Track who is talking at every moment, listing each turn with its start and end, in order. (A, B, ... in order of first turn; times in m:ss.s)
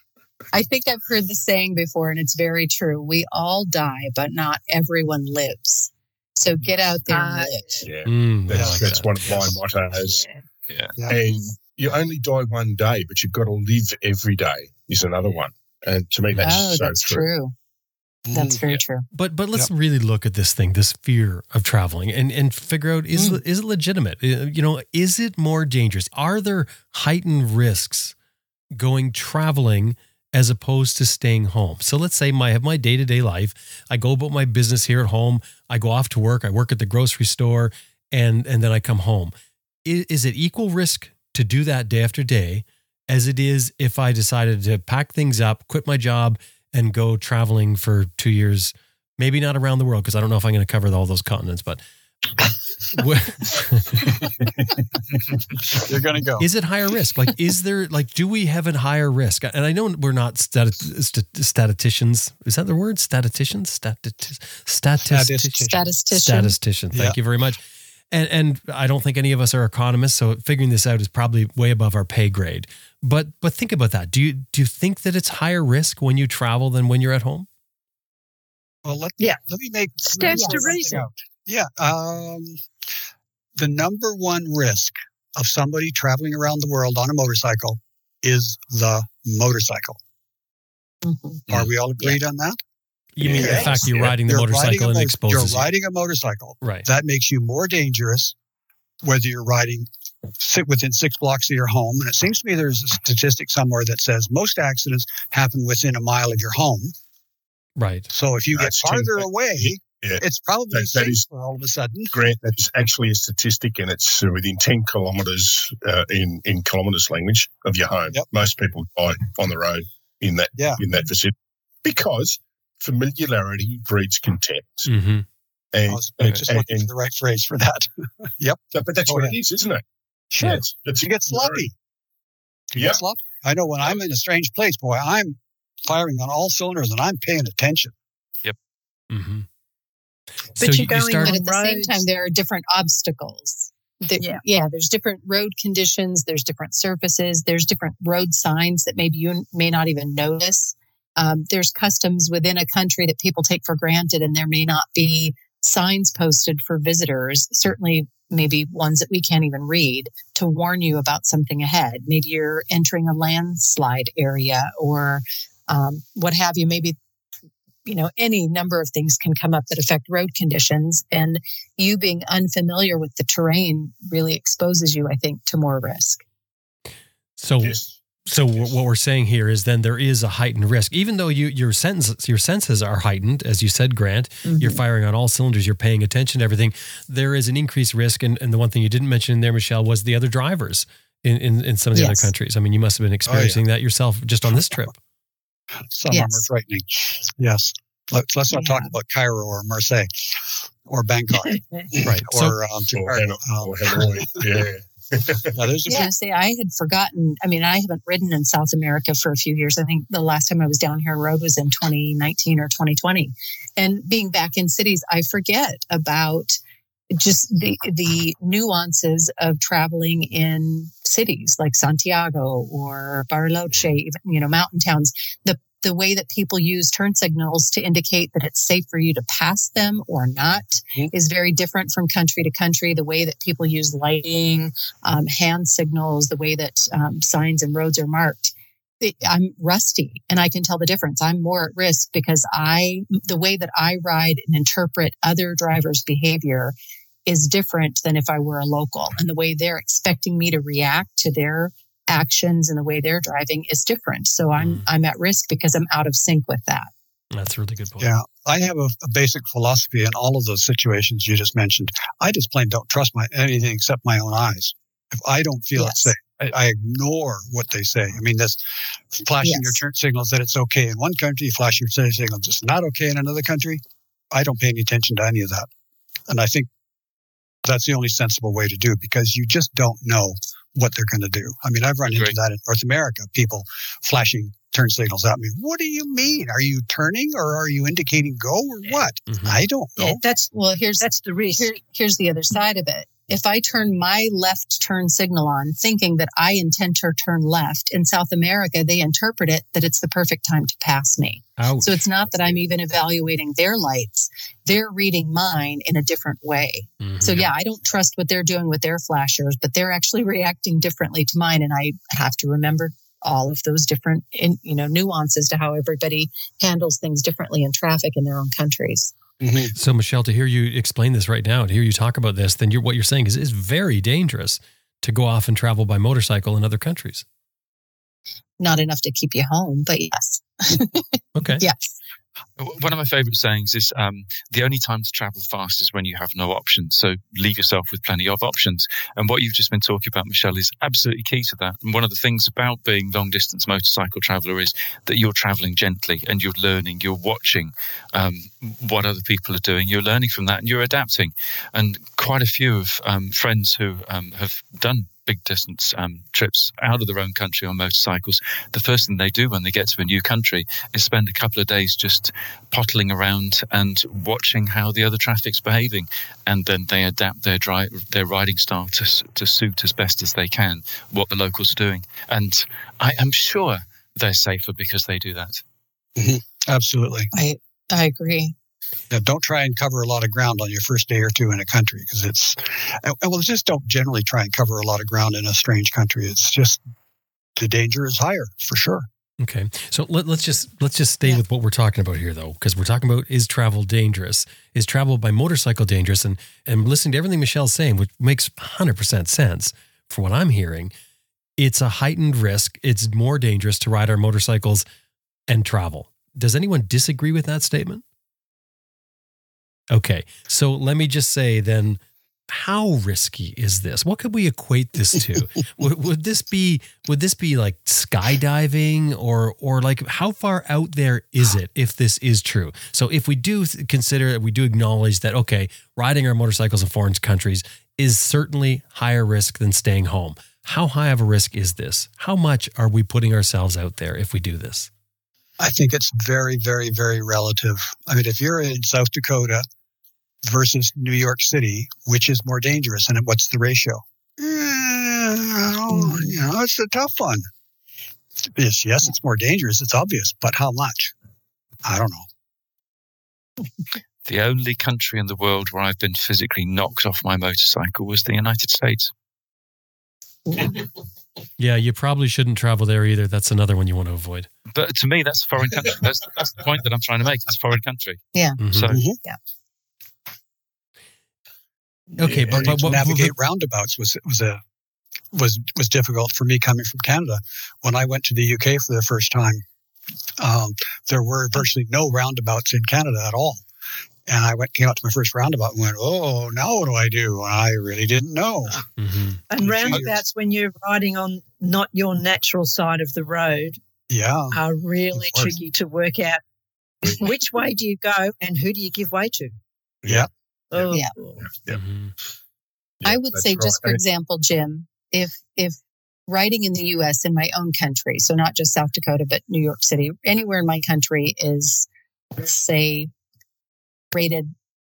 0:00.5-0:07.8 A
0:07.1-0:07.8 B
0:07.8-0:10.2 C
0:08.0-0:09.4 D
0:08.5-0:08.8 E
0:10.7-0:10.9 F
0:11.0-0:11.2 E
0:11.1-0:17.3 C
0:16.4-0:17.5 A
0:18.2-0:18.6 E
0:18.3-0:19.0 A
0:19.1-0:28.1 D
0:28.7-0:39.3 D
0:39.8-0:51.8 D
0:52.9-0:54.2 D
0:55.8-0:56.5 E
0:56.4-1:05.6 D
1:05.0-1:05.8 E
1:05.6-1:06.6 A
1:06.1-1:17.5 D
1:18.8-1:22.6 E
1:20.0-1:21.0 B
1:23.6-1:30.0 E
1:31.0-1:31.4 A
1:31.5-1:32.6 E
1:33.2-1:35.7 D
1:33.2-1:34.2 C
1:33.4-1:38.3 E
1:36.6-1:36.8 D
1:39.0-1:46.9 E
1:47.8-1:48.1 D
1:48.1-1:52.1 E
1:48.6-1:51.2 C
1:52.1-2:04.9 C
2:00.6-2:00.8 E
2:04.8-2:05.2 D
2:05.7-2:06.9 C
2:05.9-2:09.4 E
2:08.7-2:09.8 C
2:10.3-2:11.7 E
2:10.4-2:11.7 C
2:12.7-2:17.9 E
2:19.1-2:19.4 D
2:20.6-2:21.4 D
2:20.6-2:22.0 B
2:21.2-2:47.0 A
2:47.8-2:56.2 A
2:57.4-3:15.0 D
2:57.6-2:58.0 C
3:04.4-3:04.8 A
3:11.9-3:12.3 A
3:15.9-3:24.4 E
3:16.1-3:16.4 A
3:18.5-3:18.9 A
3:22.0-3:22.6 D
3:22.9-3:25.6 C
3:25.5-3:26.1 E
3:25.9-3:36.6 A
3:37.1-4:06.7 A
4:07.3-4:16.9 A
4:14.6-4:14.8 D
4:17.3-4:18.1 D
4:18.0-4:35.7 E
4:25.8-4:26.1 B
4:29.4-4:29.7 B
4:36.3-4:36.7 E
4:37.6-4:50.2 E
4:49.3-4:49.6 D
4:50.0-4:51.7 B
4:50.5-5:19.1 A
5:01.6-5:02.0 D
5:07.0-5:07.5 D
5:19.4-5:19.7 E
5:19.7-5:27.2 D
5:28.6-5:32.0 A
5:31.3-5:31.6 D
5:32.6-6:15.6 F
6:16.2-6:17.3 E
6:17.3-6:18.5 A
6:19.1-6:26.8 E
6:27.6-6:29.1 E
6:29.4-6:40.9 D
6:41.6-6:44.8 D
6:45.5-6:48.0 D
6:49.9-7:14.9 D
7:15.6-7:19.6 E
7:20.4-7:27.5 E
7:28.5-7:31.1 E
7:31.8-7:32.3 E
7:34.2-7:39.1 F
7:41.6-7:44.5 D
7:44.7-7:49.0 F
7:48.6-7:49.0 D
7:48.9-7:49.2 E
7:52.2-7:52.9 C
7:52.2-7:53.3 D
7:52.5-7:54.6 E
7:55.3-7:59.6 E
8:00.4-8:03.6 E
8:04.2-8:08.8 E
8:09.0-8:09.4 D
8:09.5-8:13.8 B
8:09.9-8:10.2 E
8:14.1-8:14.6 E
8:14.5-8:16.4 B
8:15.2-8:15.6 C
8:17.0-8:19.5 B
8:20.0-8:21.8 C
8:20.7-8:21.4 B
8:21.7-8:22.1 D
8:23.0-8:24.0 C
8:23.0-8:33.1 A
8:34.1-8:34.5 A